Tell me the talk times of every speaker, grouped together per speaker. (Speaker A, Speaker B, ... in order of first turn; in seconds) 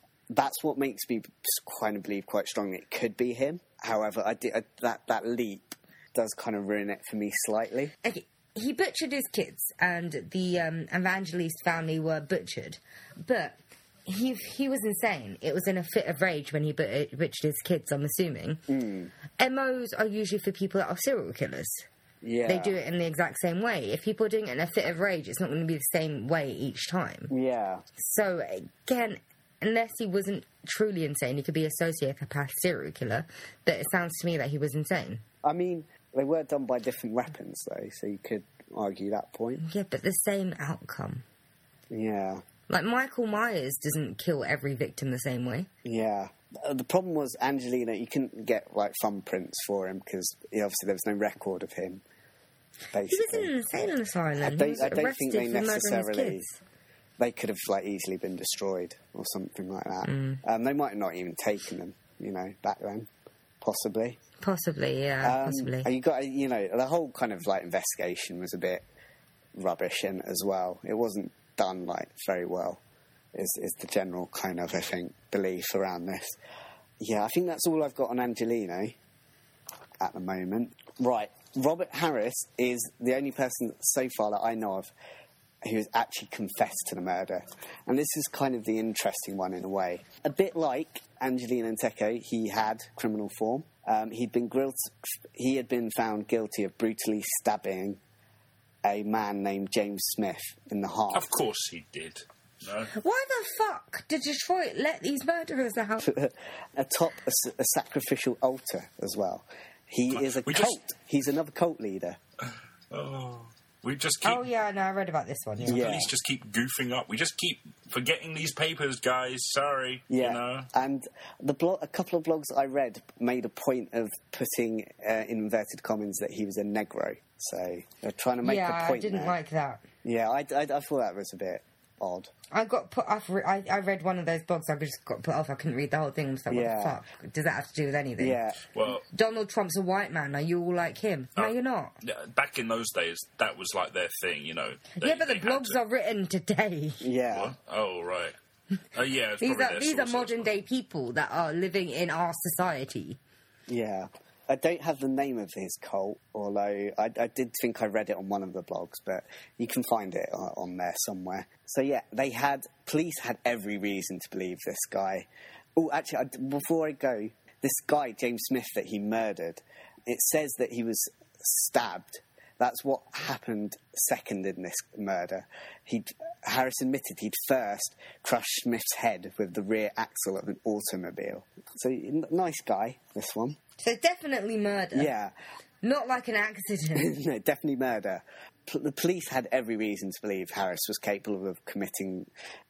Speaker A: 0.3-7.9, 18.7-19.1, 22.2-22.8, 27.3-27.8, 35.4-39.6, 41.9-42.4, 45.8-52.0, 52.9-53.5, 54.4-56.5, 57.2-63.1, 63.6-64.2, 65.2-68.8, 69.5-72.8, 73.3-76.4, 77.0-79.0, 80.0-84.9, 85.6-98.0, 98.8-101.3, 106.0-112.2, 115.7-116.1, 120.1-129.3, 130.0-132.3, 136.5-137.0, 138.2-138.6, 147.0-147.5, 153.7-183.6, 184.9-185.3, 186.9-192.3
Speaker B: 8.0-18.6, 19.4-21.9, 22.5-27.3, 28.0-35.2, 39.6-41.2, 42.7-45.7, 53.1-56.6, 60.0-60.4, 64.4-65.9, 102.9-106.1, 114.2-115.8, 128.4-129.8, 132.5-138.4, 139.1-141.9, 145.0-147.0, 149.4-153.2, 183.8-185.1, 185.8-187.1
Speaker C: 101.1-102.9, 110.1-110.8, 112.4-114.4, 115.6-120.7, 138.7-139.0, 141.4-145.8, 147.3-148.3, 148.9-150.6